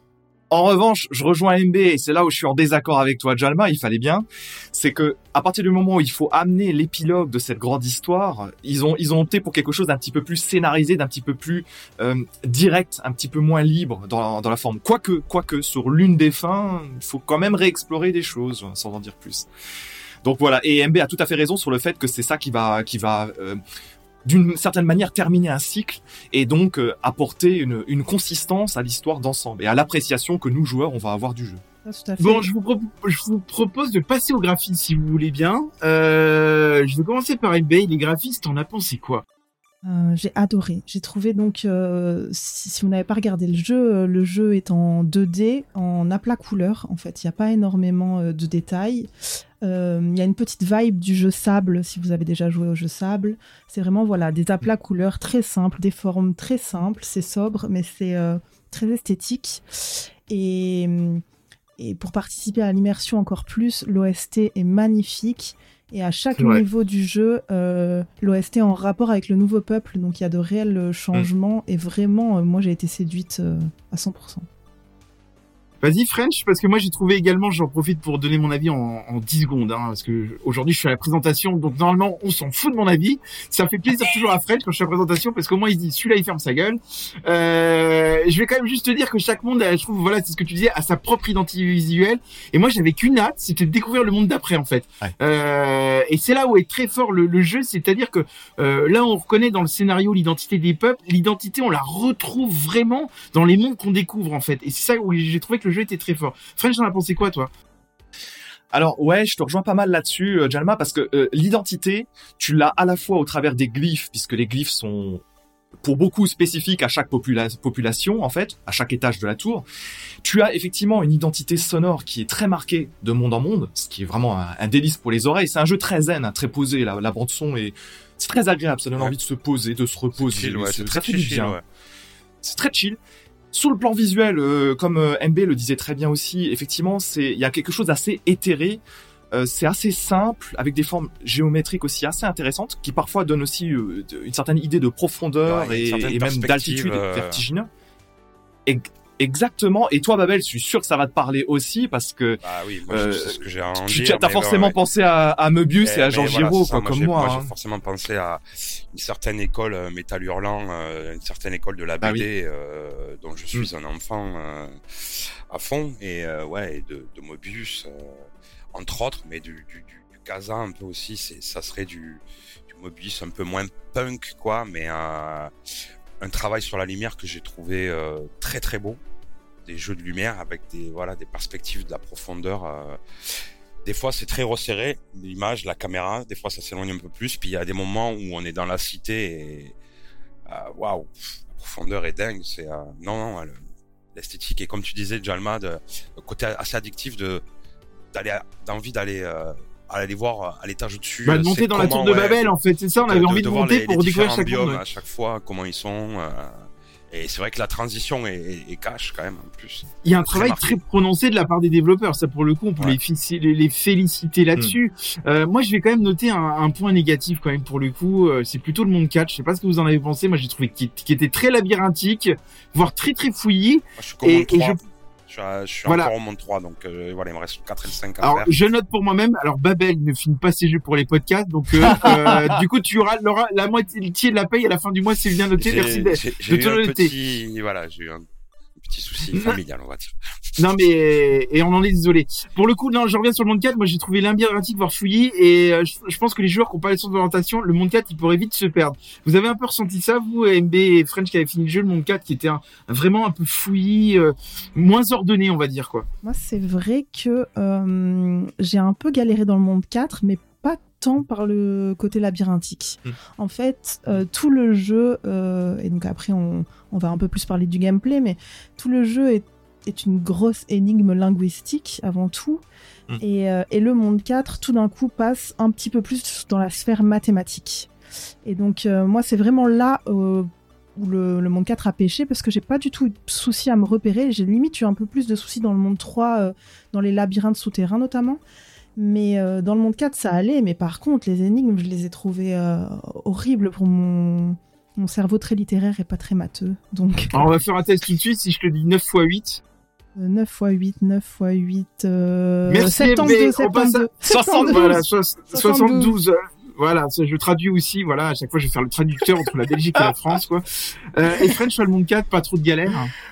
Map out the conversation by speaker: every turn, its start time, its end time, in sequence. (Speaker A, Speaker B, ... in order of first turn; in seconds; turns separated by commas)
Speaker A: 0.5-19.5, Speaker A: 20.2-23.6, Speaker A: 24.2-31.6, Speaker B: 31.8-32.5, Speaker C: 32.2-39.2, Speaker B: 39.8-49.1, Speaker B: 49.6-61.2, Speaker B: 61.8-74.5, Speaker C: 66.4-66.6, Speaker C: 75.8-107.5, Speaker A: 108.7-115.2, Speaker A: 115.8-119.6, Speaker A: 120.2-131.6, Speaker D: 130.2-131.6, Speaker A: 132.4-133.0, Speaker A: 133.5-138.8, Speaker A: 139.3-147.7, Speaker D: 145.4-147.4, Speaker A: 148.7-157.5, Speaker D: 152.4-154.8, Speaker D: 155.8-158.4, Speaker D: 158.9-175.5, Speaker A: 162.0-162.2, Speaker D: 176.2-179.0, Speaker D: 179.7-183.0, Speaker D: 183.8-189.7, Speaker D: 190.5-193.6, Speaker D: 194.1-197.4, Speaker D: 198.1-210.8, Speaker C: 201.2-204.8, Speaker C: 210.0-224.8, Speaker D: 224.0-228.5, Speaker C: 225.8-226.1, Speaker C: 228.2-237.1, Speaker A: 231.8-232.6, Speaker D: 235.6-238.2, Speaker D: 238.8-240.6, Speaker C: 239.3-239.6, Speaker C: 240.6-256.1, Speaker B: 256.2-272.6, Speaker B: 273.2-277.9, Speaker B: 278.4-288.4, Speaker B: 288.9-297.5, Speaker C: 297.3-299.6, Speaker B: 300.1-306.1, Speaker C: 302.7-313.1, Speaker A: 304.2-305.0